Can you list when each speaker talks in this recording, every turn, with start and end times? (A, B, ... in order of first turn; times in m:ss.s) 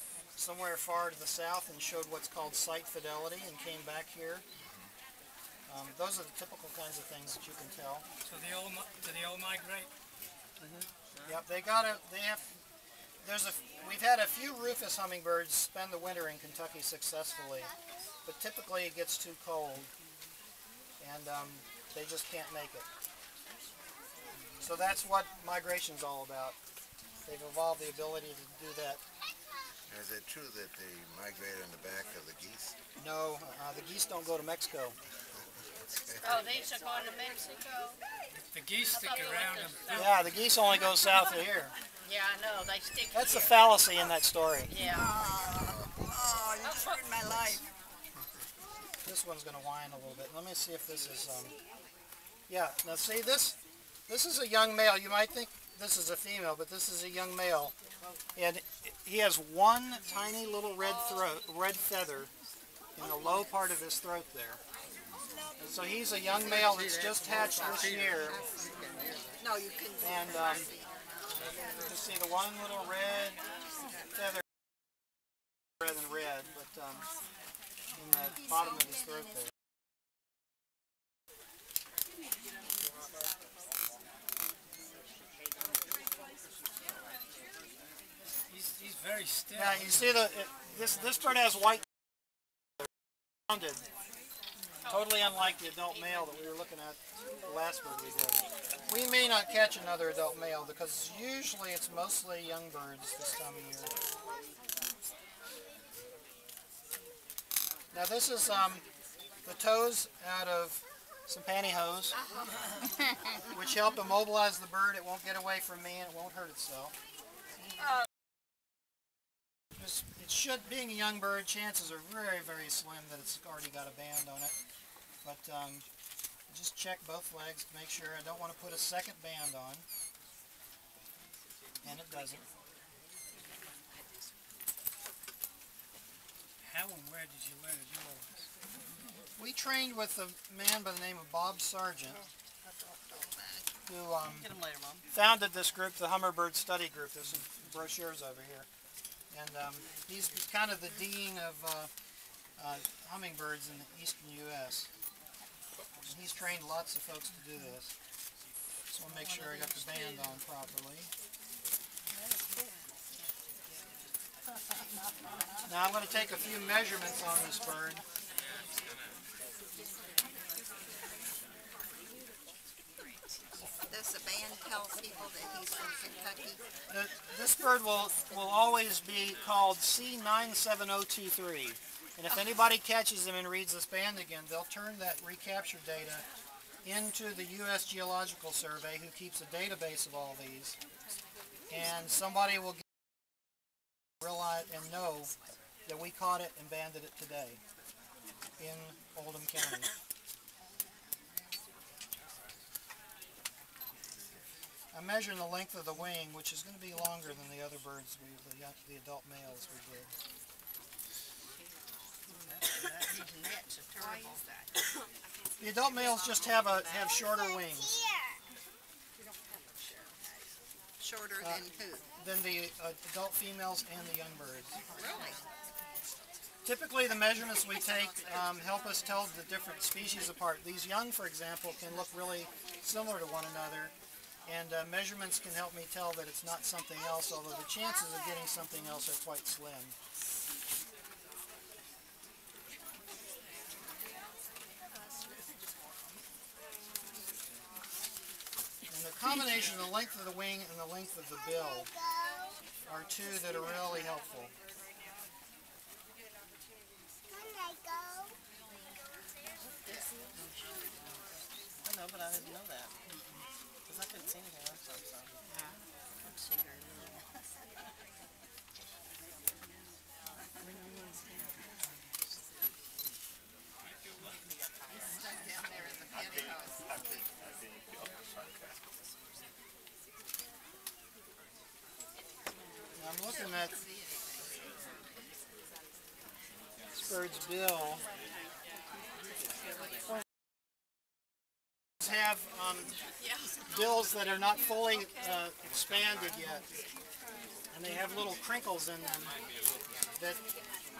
0:00.4-0:04.4 A
0:05.7-0:08.0 A
0:08.2-0:09.9 B
0:10.6-0:11.3 B
0:11.2-0:12.5 A
0:13.2-0:17.7 A
0:18.2-0:19.9 A
0:21.0-0:22.8 A
0:24.6-0:26.6 A
0:27.2-0:29.0 A
0:29.9-0:32.8 C
0:33.0-0:35.0 A
0:35.9-0:36.6 C
0:36.2-0:38.0 D
0:38.5-0:40.3 B
0:38.9-0:40.1 D
0:39.9-0:41.7 A
0:42.0-0:43.5 D
0:43.1-0:44.7 A
0:44.7-0:45.1 D
0:44.8-0:47.7 E
0:46.6-0:47.0 D
0:49.0-0:51.5 A
0:52.5-0:53.6 A
0:54.1-0:57.7 A
0:58.4-1:02.3 A
1:03.0-1:04.6 A
1:05.6-1:08.4 A
1:09.4-1:10.8 E
1:10.0-1:10.7 A
1:11.8-1:13.4 A
1:15.8-1:17.0 A
1:18.0-1:19.4 A
1:28.5-1:30.2 B
1:29.6-1:31.8 A
1:33.5-1:33.8 A
1:34.9-1:43.9 A
1:47.9-1:48.8 A
1:49.4-1:52.2 A
1:53.4-1:56.9 A
1:59.8-2:04.5 A
2:05.2-2:05.8 A
2:06.5-2:09.8 A
2:11.8-2:12.4 A
2:16.6-2:18.4 B
2:19.4-2:22.2 A
2:22.8-2:23.6 E
2:23.9-2:24.5 A
2:24.2-2:25.0 F
2:25.1-2:28.7 A
2:29.3-2:31.9 A
2:32.6-2:34.9 A
2:36.0-2:37.9 A
2:38.9-2:41.1 A
2:45.6-2:48.0 A
2:53.9-2:56.6 E
2:56.9-3:06.2 A
3:06.8-3:10.8 A
3:11.7-3:12.8 A
3:14.2-3:15.3 A
3:15.8-3:17.6 A
3:18.6-3:19.9 A
3:24.9-3:30.1 A
3:32.3-3:33.8 F
3:33.1-3:34.4 E
3:35.6-3:38.0 A
3:41.0-3:42.0 E
3:41.4-3:41.6 A
3:42.2-3:44.8 A
3:44.9-3:45.4 E
3:46.6-3:53.9 A
3:54.4-3:59.9 A
4:08.9-4:11.9 A
4:12.8-4:14.5 A
4:21.8-4:22.9 F
4:23.9-4:25.3 F
4:35.2-4:36.6 E
4:43.0-4:43.7 A
4:46.9-4:48.0 A
4:52.0-4:52.9 A
4:53.7-4:56.6 A
4:57.7-4:59.3 A